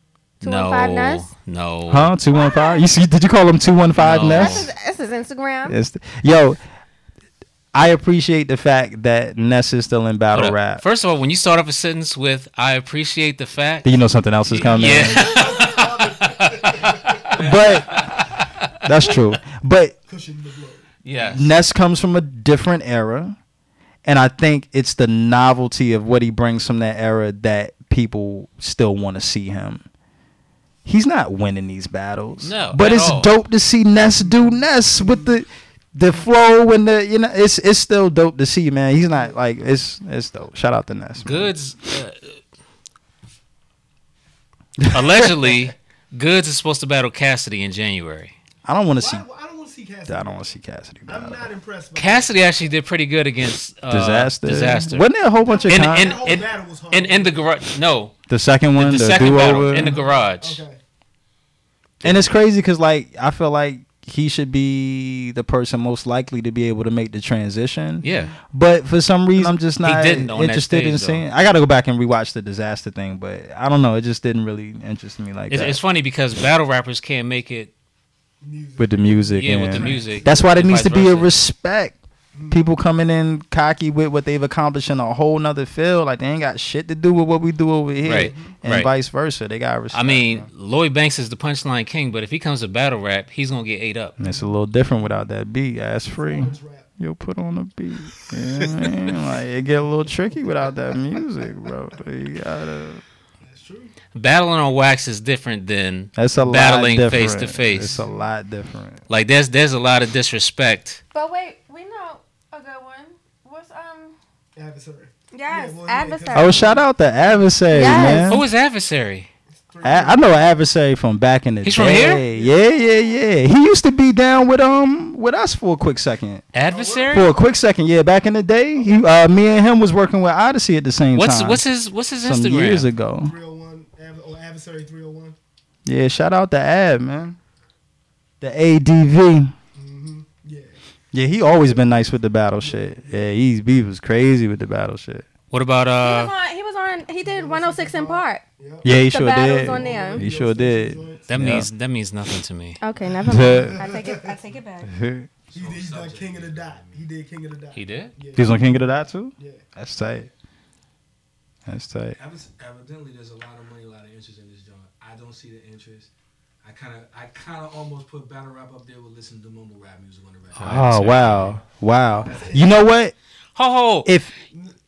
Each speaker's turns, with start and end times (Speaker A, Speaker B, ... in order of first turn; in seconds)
Speaker A: 0.4-2.1, 4.0-4.7, 10.3-13.9, 14.5-17.4, 18.0-18.5, 21.0-21.5, 32.4-33.3, 41.2-42.4, 44.9-48.3, 51.9-55.1, 55.7-58.1, 58.8-60.6, 68.0-68.3, 69.3-71.2, 75.5-77.7, 79.3-81.3, 88.0-88.9, 89.9-94.2, 104.1-108.0, 109.1-111.0, 118.0-119.3, 121.6-122.2, 126.5-127.3, 131.1-132.9, 145.5-146.3, 151.3-152.8, 157.7-158.1, 170.6-171.5, 173.5-174.1
Speaker B: 0.4-1.3, 2.3-2.8, 4.2-5.8, 111.1-114.2, 115.3-116.8, 117.7-118.4, 122.3-123.2, 146.0-150.3, 152.8-154.9
Speaker C: 1.9-4.7, 5.7-6.6, 7.7-10.8, 13.8-15.3, 17.4-18.1, 18.8-19.9, 21.3-23.4, 24.0-29.8, 30.8-41.5, 44.8-45.5, 48.6-49.2, 50.1-51.5, 53.9-56.2, 58.3-60.0, 62.0-75.8, 78.8-81.9, 82.5-90.5, 94.2-103.0, 106.2-109.0, 116.3-118.4, 119.8-126.5, 127.1-131.6, 132.2-133.3, 135.8-137.4, 138.4-139.5, 141.1-145.2, 148.8-151.7, 153.3-153.9, 154.8-155.3, 158.3-160.3, 161.7-162.2, 170.6-173.1, 174.0-174.3
Speaker D: 14.6-17.4, 20.1-20.9, 34.2-35.4, 39.1-39.4, 49.0-50.5, 51.0-52.3, 55.4-57.5, 59.4-60.8, 68.0-68.4, 78.4-80.5, 82.3-82.6, 88.1-88.5, 94.2-94.5, 96.1-96.9, 98.5-101.2, 103.4-103.9, 107.7-108.3, 114.5-118.2, 119.5-120.3, 121.8-122.6, 126.6-127.4, 128.7-129.2, 133.2-135.4, 139.7-140.8, 141.6-142.1, 142.6-143.3, 147.2-148.9, 149.6-151.6, 153.0-154.4, 155.5-159.6, 172.2-172.8
Speaker E: 17.3-18.2, 155.5-157.0, 162.2-166.1, 166.6-170.8